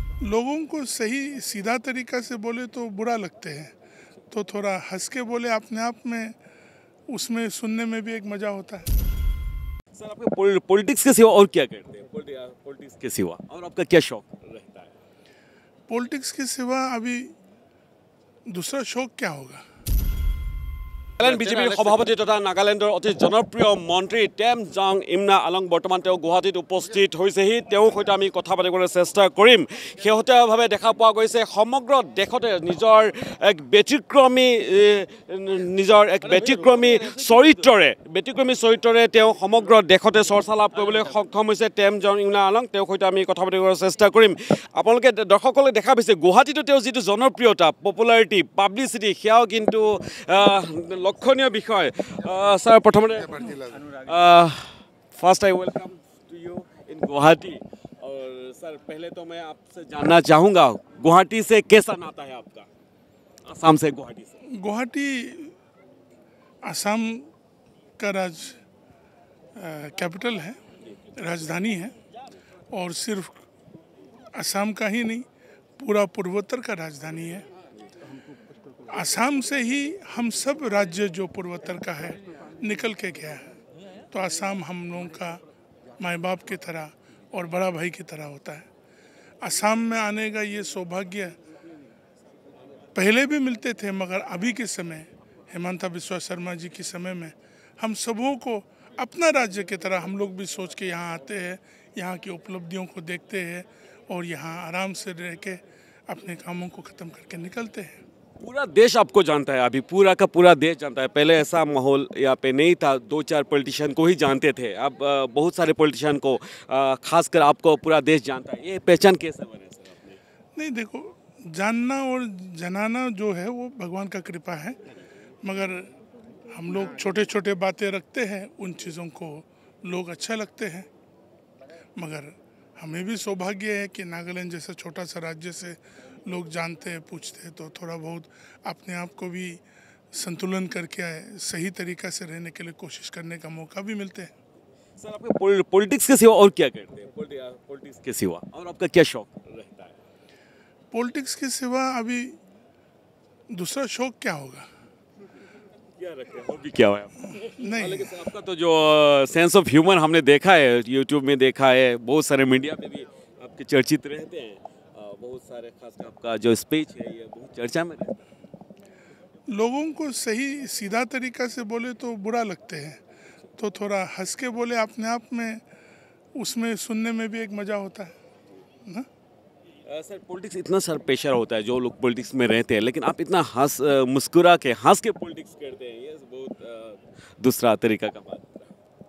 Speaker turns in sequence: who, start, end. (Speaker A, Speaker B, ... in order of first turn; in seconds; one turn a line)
Speaker A: 0.2-3.8
Speaker A: 4.3-6.3
Speaker A: 7.1-8.9
Speaker B: 9.9-14.9
Speaker A: 15.9-17.3
Speaker A: 18.5-19.6
Speaker B: 21.2-62.7
Speaker B: 63.4-64.4
Speaker A: 64.5-65.5
Speaker A: 66.6-67.3
Speaker A: 68.0-68.6
Speaker A: 69.5-70.6
Speaker A: 71.1-71.9
Speaker A: 72.7-73.5
Speaker A: 74.3-75.2
Speaker A: 75.8-77.4
Speaker A: 78.9-83.5
Speaker A: 84.1-85.4
Speaker A: 86.0-88.7
Speaker A: 89.4-91.4
Speaker A: 92.9-108.0
Speaker B: 108.4-120.2
Speaker A: 120.5-124.8
Speaker A: 125.4-125.9
Speaker A: 126.5-130.9
Speaker A: 132.0-144.3
Speaker B: 145.0-149.9
Speaker A: 150.9-152.4
Speaker A: 153.5-154.7
Speaker B: 156.0-168.2
Speaker A: 157.4-158.1
Speaker A: 169.5-173.0
Speaker A: 173.6-175.6
Speaker A: 176.4-178.1
Speaker B: 179.8-188.7